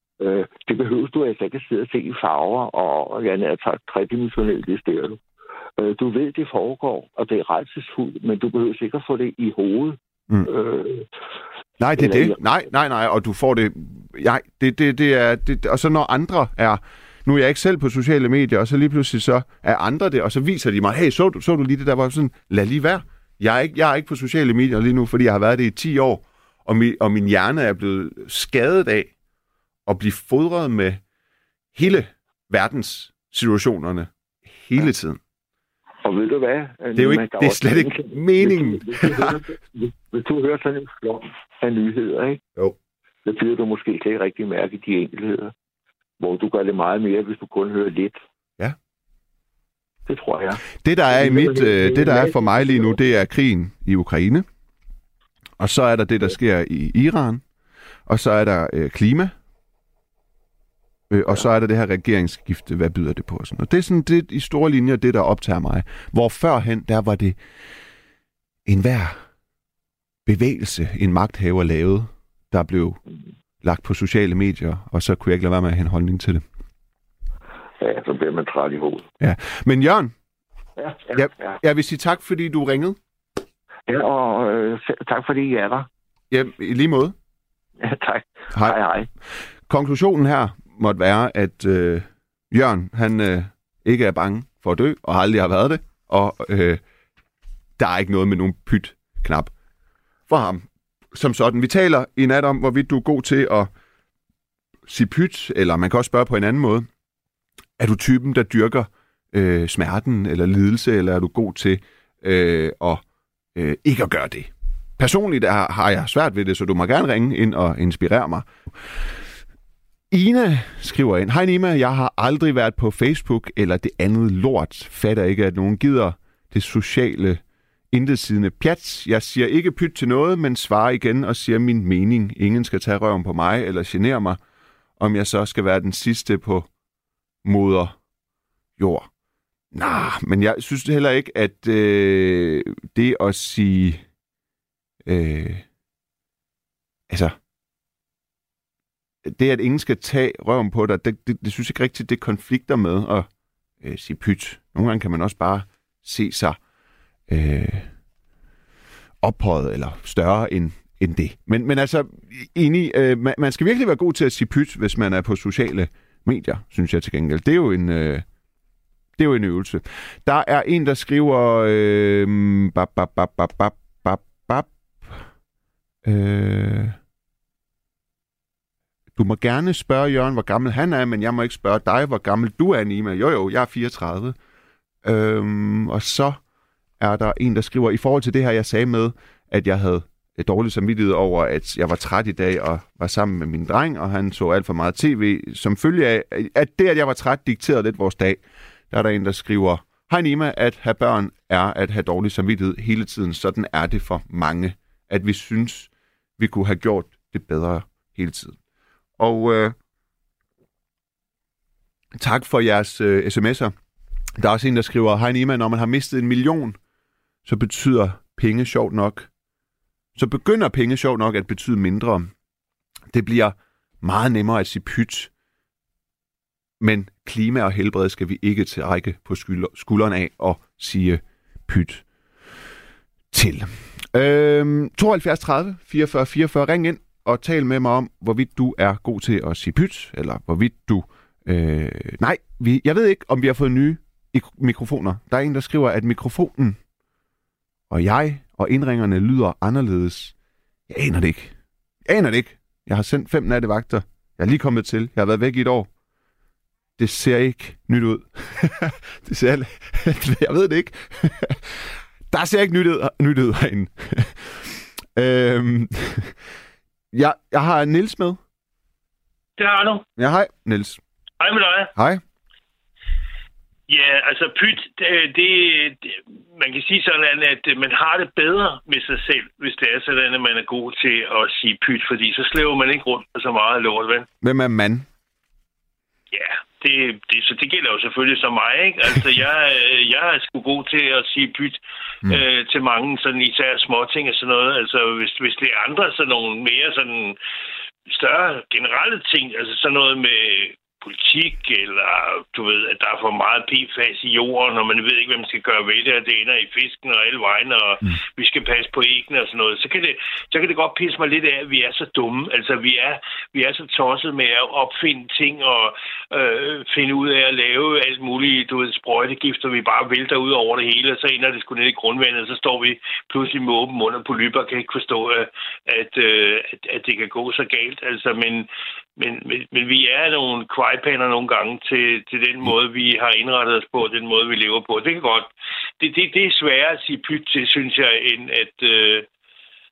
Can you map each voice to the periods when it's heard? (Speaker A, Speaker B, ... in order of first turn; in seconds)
Speaker A: 0.2-5.2, 5.8-11.1, 12.0-12.4, 36.0-42.4, 43.2-45.5, 46.2-48.2, 50.1-53.0, 77.8-79.1, 80.8-81.6, 83.9-85.9, 87.8-89.1
Speaker B: 11.8-29.1, 29.9-31.0, 31.8-35.2, 37.0-39.4, 50.8-54.5, 55.6-57.4, 58.1-59.3, 61.1-67.4, 68.7-69.2, 70.3-73.0, 73.6-76.5, 79.2-80.1, 81.1-83.0, 86.3-87.2, 88.5-88.8, 89.7-96.8, 97.8-99.5, 100.3-103.7, 104.9-106.9, 107.8-113.0, 113.5-118.5, 120.1-127.4, 127.9-134.4, 135.0-136.7, 137.4-138.0, 138.8-139.1, 139.7-144.0, 145.1-145.7, 147.1-147.4, 149.2-153.3, 153.8-156.6, 157.3-157.9, 159.2-168.2, 169.2-175.2, 176.0-177.0, 179.2-184.4, 185.0-186.4, 187.0-208.6, 209.2-209.8, 212.2-213.7, 214.4-216.8, 217.5-219.3, 220.2-222.3, 223.1-225.3, 226.8-232.1, 233.3-246.8, 247.9-250.3, 250.9-251.6, 252.1-255.9, 257.0-266.4, 267.1-268.4, 270.2-271.0, 272.0-272.2, 284.4-285.1
Speaker C: 269.6-270.1, 271.4-271.9, 273.9-284.3, 286.3-297.4, 298.1-339.3